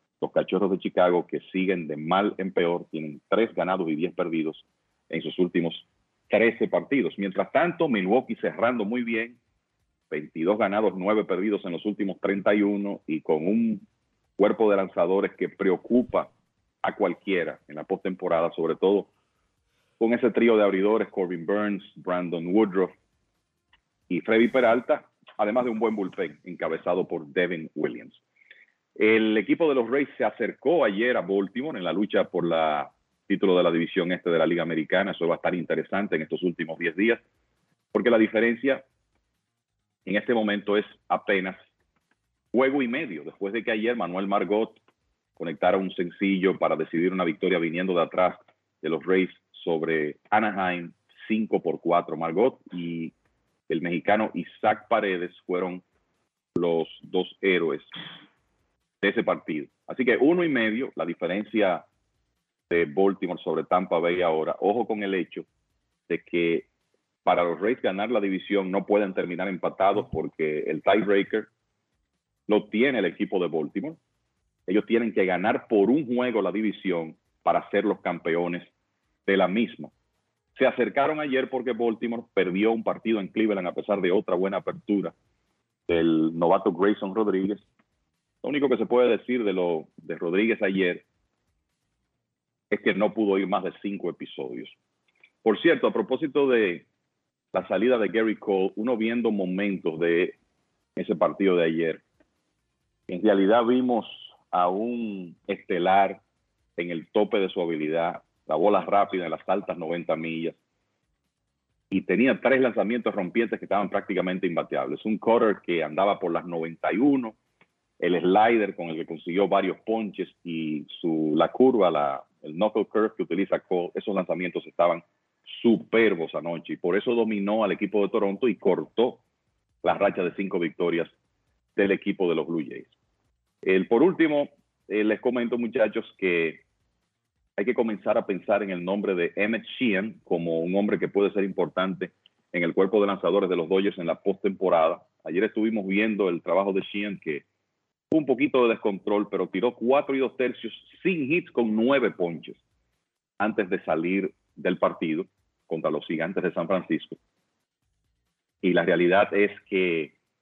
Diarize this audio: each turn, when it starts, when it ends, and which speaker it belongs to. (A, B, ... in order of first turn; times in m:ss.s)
0:00.2-0:09.4 A
0:10.1-0:13.8 A
0:14.4-0:16.3 A
0:16.8-0:19.1 A
0:20.0-0:22.9 A
0:24.1-0:28.2 A
0:29.0-0:37.2 A
0:37.9-0:38.8 A
0:40.0-0:41.6 A
0:42.5-0:44.8 A
0:45.4-0:53.1 A
0:53.7-0:55.8 A
0:56.5-0:57.9 A
0:59.0-1:01.8 A
1:02.7-1:05.4 A
1:06.1-1:06.7 A
1:07.2-1:11.5 A
1:12.5-1:14.0 A
1:14.7-1:18.7 A
1:19.2-1:19.9 A
1:20.6-1:25.1 A
1:25.9-1:27.6 A
1:28.4-1:31.0 A
1:32.7-1:34.7 A
1:35.4-1:36.8 A
1:37.5-1:40.3 A
1:41.0-1:42.0 A
1:43.1-1:46.2 A
1:46.8-1:50.6 A
1:51.9-1:57.3 A
1:58.0-2:09.2 A
2:09.8-2:11.1 A
2:11.8-2:12.9 A
2:13.6-2:16.6 A
2:17.6-2:27.4 A
2:28.1-2:32.6 A
2:33.4-2:37.2 A
2:38.6-2:40.1 A